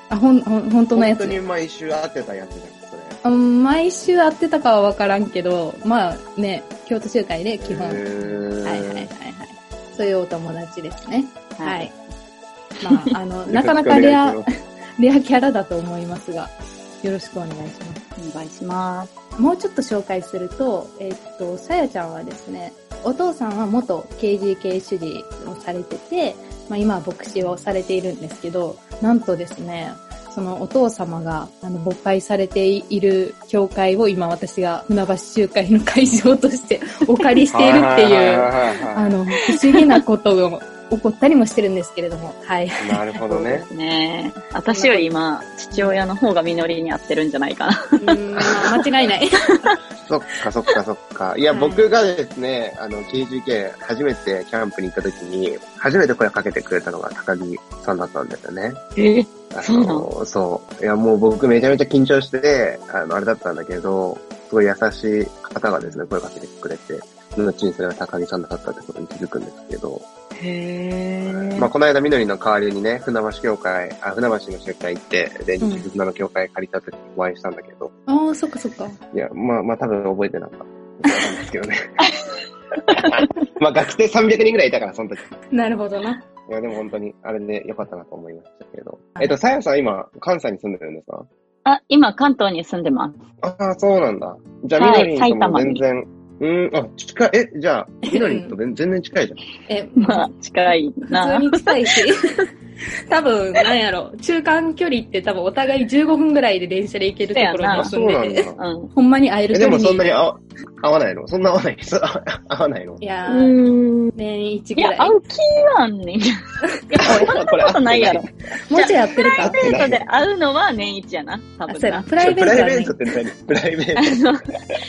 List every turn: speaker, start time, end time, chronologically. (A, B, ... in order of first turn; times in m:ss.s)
0:00.1-0:01.4 A
0:00.9-0:03.2 B
0:03.2-0:08.1 A
0:07.6-0:09.1 B
0:08.6-0:11.9 A
0:11.6-0:11.9 C
0:12.8-0:14.4 A
0:13.5-0:14.4 B
0:15.0-0:18.0 A
0:18.2-0:19.1 C
0:19.4-0:43.0 A
0:37.5-0:39.1 B
0:42.8-0:43.7 B
0:43.2-0:48.2 C
0:44.7-0:45.1 A
0:45.7-0:46.0 A
0:48.0-0:49.4 A
0:50.0-0:58.8 B
0:51.5-0:51.8 A
0:59.0-1:00.1 C
0:59.5-1:10.0 B
1:10.4-1:11.7 C
1:11.2-1:17.9 B
1:15.6-1:15.8 A
1:18.1-1:19.0 A
1:19.1-1:21.8 B
1:22.9-1:25.2 B
1:25.5-1:26.2 A
1:26.4-1:31.3 B
1:31.6-1:33.2 C
1:33.4-1:39.4 B
1:34.8-1:35.8 C
1:38.1-1:38.5 A
1:39.7-1:40.3 A
1:40.0-1:42.0 C
1:41.1-1:42.3 A
1:43.1-1:50.0 A
1:47.3-1:48.9 C
1:47.7-1:48.6 B
1:49.5-1:53.0 B
1:53.0-1:53.5 A
1:53.3-1:54.1 C
1:54.1-1:55.2 A
1:54.8-1:56.3 C
1:56.9-2:02.1 C
1:56.9-1:57.3 A
1:57.0-1:58.2 B
1:58.7-1:59.6 A
1:59.5-2:00.1 B
2:01.7-2:03.0 A
2:02.2-2:04.2 B
2:04.0-2:04.4 C